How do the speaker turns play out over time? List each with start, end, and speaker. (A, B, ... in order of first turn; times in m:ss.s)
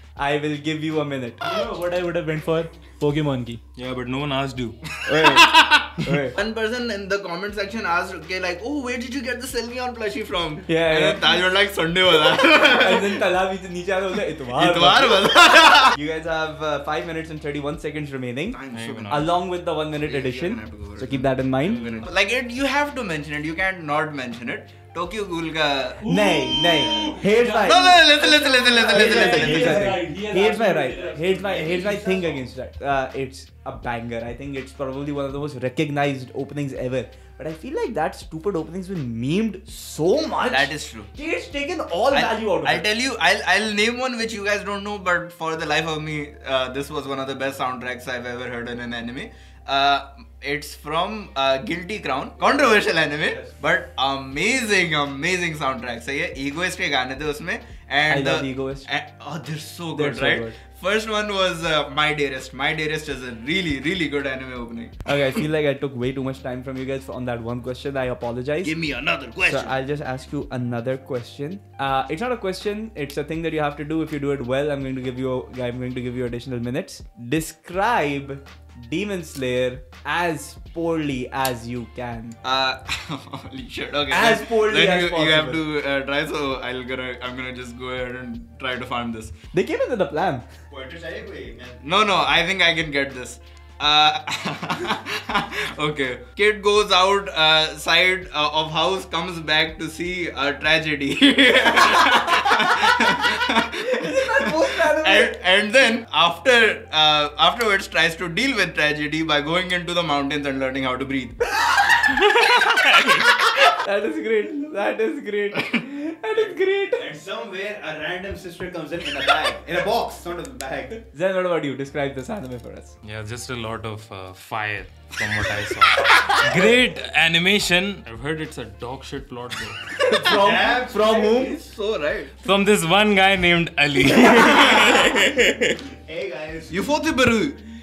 0:00.2-0:01.5 A
0:01.4-0:03.6 B
0:03.8-0:04.8 C
0:05.0-0:06.4 A
0:05.3-0:13.2 D
0:10.7-0:11.4 A
0:12.2-0:15.4 A
0:14.5-0:16.0 D
0:15.9-0:18.6 A
0:18.5-0:19.2 D
0:18.7-0:19.3 C
0:19.1-0:22.0 A
0:20.0-0:26.1 D
0:26.0-0:32.3 B
0:26.0-0:42.9 A
0:26.9-0:30.0 D
0:40.5-0:41.1 D
0:42.1-1:05.2 D
0:58.1-0:58.9 A
0:59.9-1:00.6 A
1:05.0-1:08.7 A
1:08.6-1:09.7 E
1:09.4-1:22.4 A
1:22.4-1:29.3 D
1:24.1-1:25.6 A
1:29.5-1:30.4 A
1:30.7-1:31.8 E
1:31.8-1:51.4 D
1:42.4-1:43.1 A
1:43.7-1:45.4 A
1:53.6-1:57.0 A
1:56.3-2:01.0 E
2:01.0-2:03.0 A
2:03.0-2:09.9 C
2:09.9-2:11.6 A
2:10.2-2:11.3 E
2:10.4-2:12.3 D
2:12.4-2:15.8 C
2:16.0-2:16.8 E
2:16.7-2:17.6 D